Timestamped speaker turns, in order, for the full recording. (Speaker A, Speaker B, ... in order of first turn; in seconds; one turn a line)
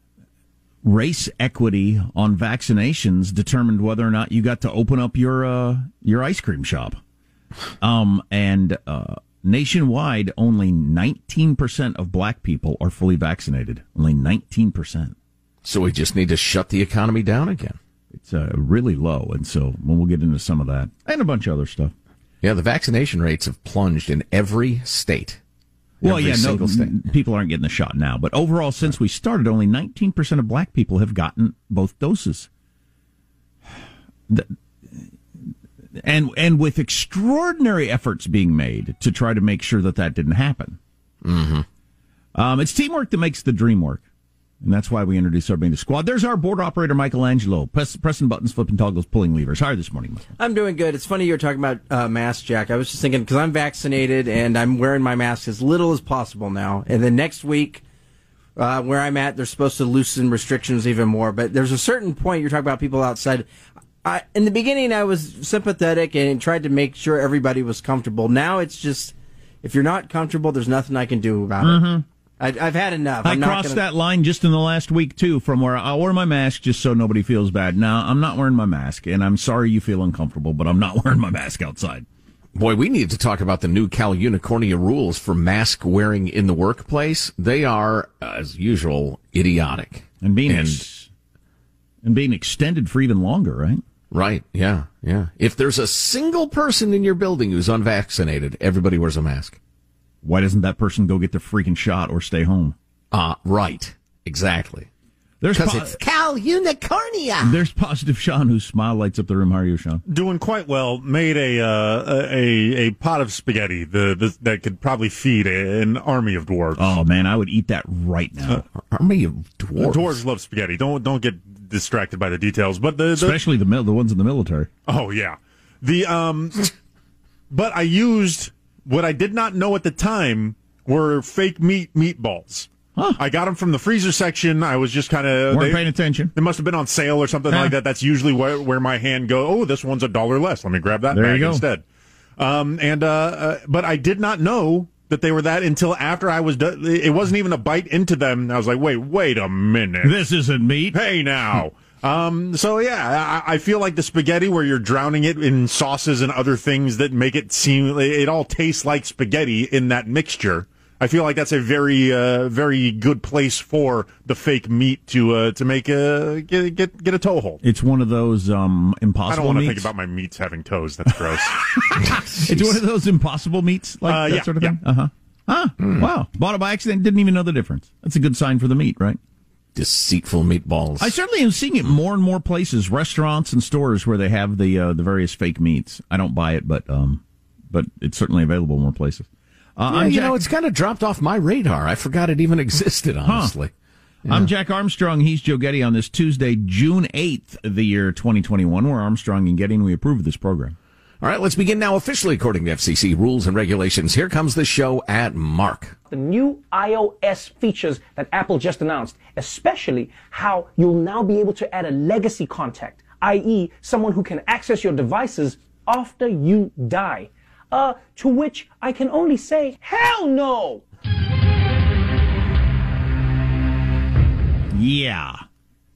Speaker A: 0.8-7.0
Speaker A: 7.8-15.2
Speaker B: 15.6-17.8
Speaker A: 18.1-21.9
Speaker B: 22.4-25.4
Speaker A: 26.0-32.5
Speaker B: 26.0-27.1
Speaker A: 34.3-35.1
Speaker A: 36.0-40.8
Speaker B: 41.2-41.7
Speaker A: 42.4-44.0
Speaker A: 44.6-50.3
Speaker C: 50.4-57.8
Speaker C: 58.6-63.5
Speaker C: 64.0-73.8
Speaker A: 71.6-72.0
Speaker A: 73.2-82.1
Speaker B: 82.5-90.8
Speaker A: 90.2-91.1
Speaker A: 92.0-93.8
Speaker B: 94.1-99.6
Speaker A: 100.2-102.8
Speaker B: 103.1-104.9
Speaker A: 105.4-106.0
Speaker B: 105.5-107.6
Speaker A: 107.4-110.0
Speaker D: 110.1-117.0
Speaker A: 116.8-118.6
Speaker B: 118.8-120.2
Speaker D: 119.8-123.4
Speaker A: 123.1-124.7
Speaker D: 124.9-126.7
Speaker D: 127.5-141.8
Speaker A: 133.0-133.2
Speaker A: 135.5-136.3
Speaker A: 137.5-137.8
Speaker A: 141.1-141.6
Speaker D: 142.4-150.2
Speaker A: 150.0-151.0
Speaker D: 150.9-167.6
Speaker A: 167.6-169.9
Speaker D: 169.3-171.6
Speaker A: 171.6-179.2
Speaker B: 172.0-172.8
Speaker D: 174.1-174.8
Speaker B: 175.8-176.1
Speaker B: 179.8-181.1
Speaker A: 181.0-189.3
Speaker A: 189.8-190.5
Speaker B: 189.9-193.7
Speaker A: 193.2-193.6
Speaker B: 194.3-194.5
Speaker A: 194.3-200.8
Speaker B: 201.2-206.0
Speaker E: 206.1-220.8
Speaker A: 224.7-225.4